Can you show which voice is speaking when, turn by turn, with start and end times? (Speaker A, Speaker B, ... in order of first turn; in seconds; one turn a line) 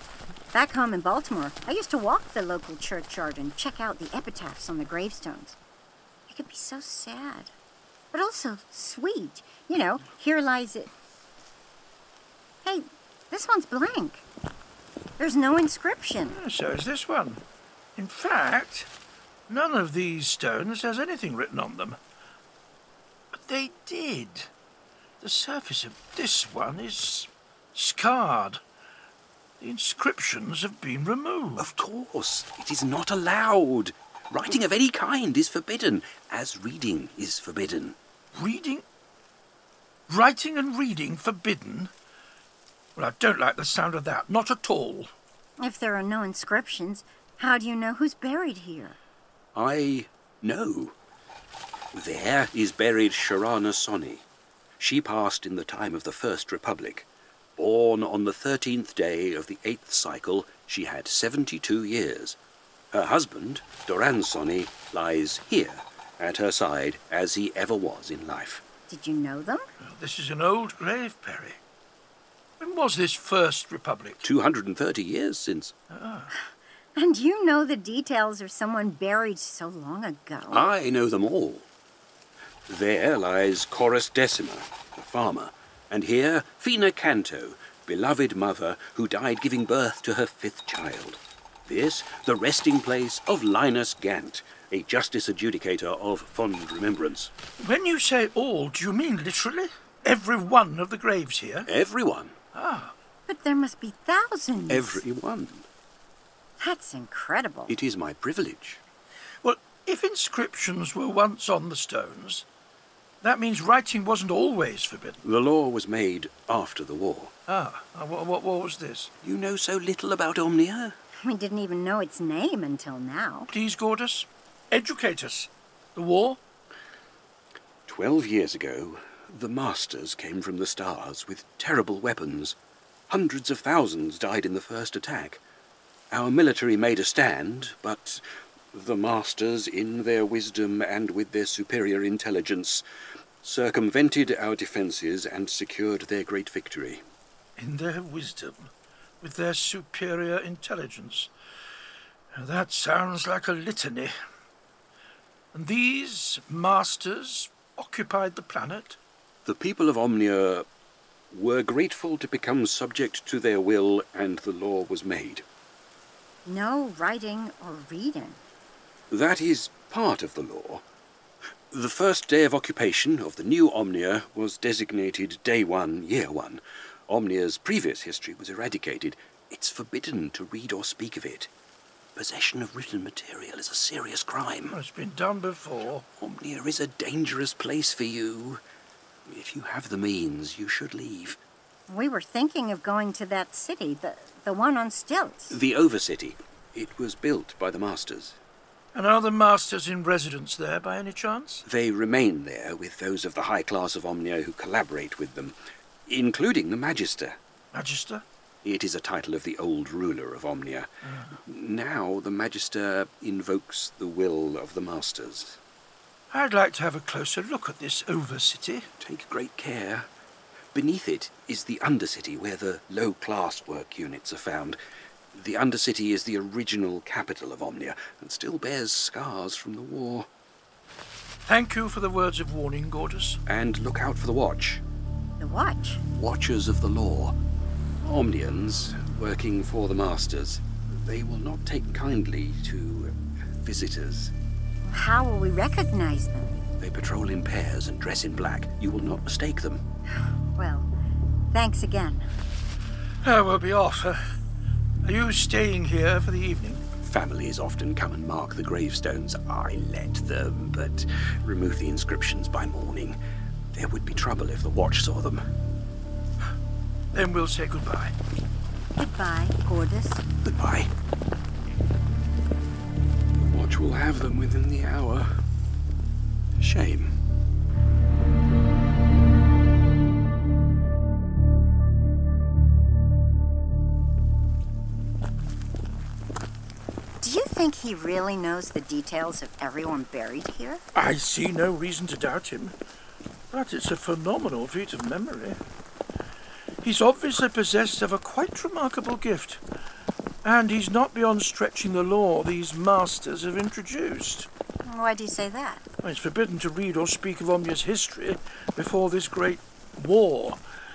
Speaker A: 0.5-5.6
Speaker A: 6.3-7.5
Speaker A: 8.1-10.9
Speaker A: 12.6-14.2
Speaker A: 15.2-16.4
Speaker B: 16.3-17.4
Speaker B: 18.0-18.9
Speaker B: 19.5-22.0
Speaker B: 23.3-24.5
Speaker B: 25.2-28.6
Speaker B: 29.6-31.7
Speaker C: 31.6-38.0
Speaker B: 38.4-38.8
Speaker B: 40.1-41.9
Speaker B: 43.0-45.1
Speaker A: 45.6-49.0
Speaker C: 49.5-51.0
Speaker C: 51.9-54.2
Speaker C: 54.8-62.4
Speaker C: 62.9-68.6
Speaker A: 68.9-69.6
Speaker B: 69.8-71.6
Speaker B: 72.6-74.2
Speaker C: 74.2-75.7
Speaker B: 75.9-76.3
Speaker A: 77.0-80.7
Speaker C: 80.5-81.7
Speaker C: 82.7-97.3
Speaker B: 97.6-101.7
Speaker C: 101.6-102.4
Speaker B: 102.5-102.9
Speaker A: 103.3-105.0
Speaker C: 104.7-105.7
Speaker A: 106.6-107.8
Speaker C: 107.7-108.8
Speaker B: 109.4-112.4
Speaker B: 113.2-115.2
Speaker C: 115.2-117.3
Speaker B: 117.5-119.1
Speaker C: 119.2-121.0
Speaker A: 121.2-123.5
Speaker B: 123.5-126.4
Speaker C: 127.9-132.6
Speaker C: 133.1-135.4
Speaker C: 136.1-138.2
Speaker C: 138.7-142.8
Speaker C: 143.4-147.0
Speaker B: 147.6-148.7
Speaker B: 149.2-151.3
Speaker B: 152.4-154.1
Speaker B: 155.5-159.0
Speaker C: 159.5-160.7
Speaker C: 161.3-165.4
Speaker A: 166.4-168.4
Speaker C: 169.1-170.8
Speaker C: 171.7-181.5
Speaker C: 182.2-184.8
Speaker B: 184.7-186.0
Speaker C: 186.2-188.6
Speaker C: 189.3-191.4
Speaker A: 191.9-195.6
Speaker C: 195.5-198.4
Speaker B: 198.9-201.6
Speaker C: 201.7-205.6
Speaker C: 206.1-207.4
Speaker B: 207.7-208.2
Speaker C: 208.6-210.9
Speaker C: 211.4-215.6
Speaker B: 216.3-218.9
Speaker C: 219.0-220.1
Speaker C: 220.7-224.8
Speaker C: 225.3-230.3
Speaker B: 231.5-233.4
Speaker C: 233.5-234.8
Speaker A: 235.4-236.0
Speaker C: 236.1-237.4
Speaker C: 238.0-244.3
Speaker A: 244.8-246.6
Speaker C: 246.8-249.8
Speaker A: 250.6-250.9
Speaker A: 251.5-252.2
Speaker B: 253.2-254.2
Speaker B: 255.0-256.8
Speaker C: 257.0-263.2
Speaker C: 263.7-265.4
Speaker B: 267.1-268.1
Speaker A: 269.0-270.2
Speaker C: 270.4-270.9
Speaker C: 273.4-275.3
Speaker C: 276.6-277.1
Speaker A: 287.2-290.8
Speaker B: 290.9-292.8
Speaker B: 293.5-295.6
Speaker B: 296.8-299.6
Speaker B: 300.4-304.5
Speaker A: 304.9-305.8
Speaker B: 306.0-310.6